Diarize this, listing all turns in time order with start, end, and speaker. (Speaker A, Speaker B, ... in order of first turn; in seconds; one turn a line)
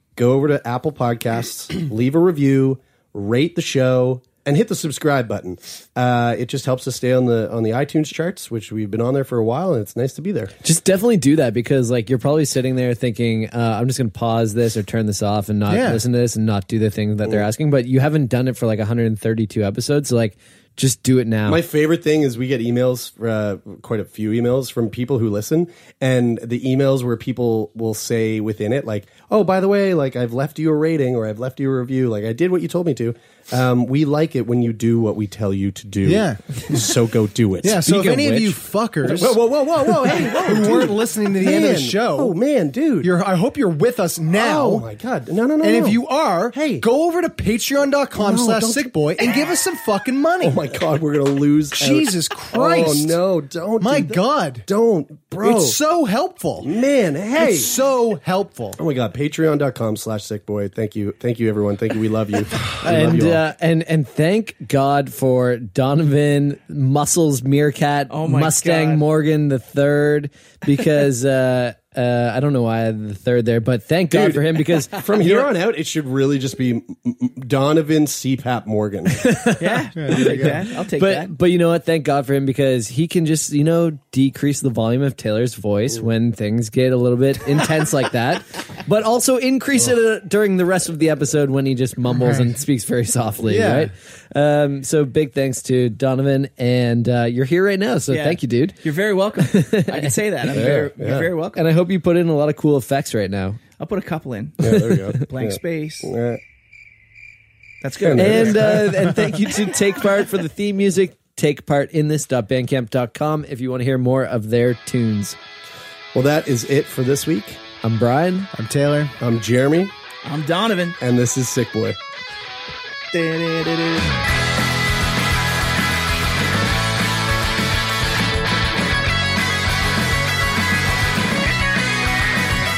Speaker A: 0.1-10.5
Speaker B: 10.6-21.6
Speaker C: 15.7-16.0
Speaker A: 21.4-43.1
Speaker C: 36.0-36.4
Speaker C: 37.6-42.3
Speaker C: 43.0-44.9
Speaker A: 44.3-46.8
Speaker C: 45.6-50.6
Speaker A: 48.2-48.9
Speaker A: 50.4-55.8
Speaker C: 51.7-53.2
Speaker C: 53.8-54.7
Speaker C: 55.4-56.7
Speaker A: 56.6-57.7
Speaker C: 57.4-58.8
Speaker A: 58.8-63.5
Speaker B: 62.8-75.0
Speaker D: 68.1-69.0
Speaker A: 74.1-79.2
Speaker D: 75.2-75.5
Speaker B: 79.1-98.8
Speaker D: 79.6-81.3
Speaker C: 80.0-80.6
Speaker C: 92.1-92.6
Speaker C: 93.4-93.9
Speaker D: 98.1-101.6
Speaker B: 99.5-100.1
Speaker A: 100.5-101.3
Speaker B: 101.5-103.6
Speaker D: 103.8-106.1
Speaker A: 104.6-106.4
Speaker D: 107.8-108.9
Speaker A: 108.0-109.1
Speaker B: 108.2-115.4
Speaker A: 116.1-117.6
Speaker B: 117.8-118.5
Speaker C: 118.5-119.1
Speaker A: 119.2-119.9
Speaker D: 120.2-121.0
Speaker A: 121.0-122.0
Speaker D: 123.1-124.1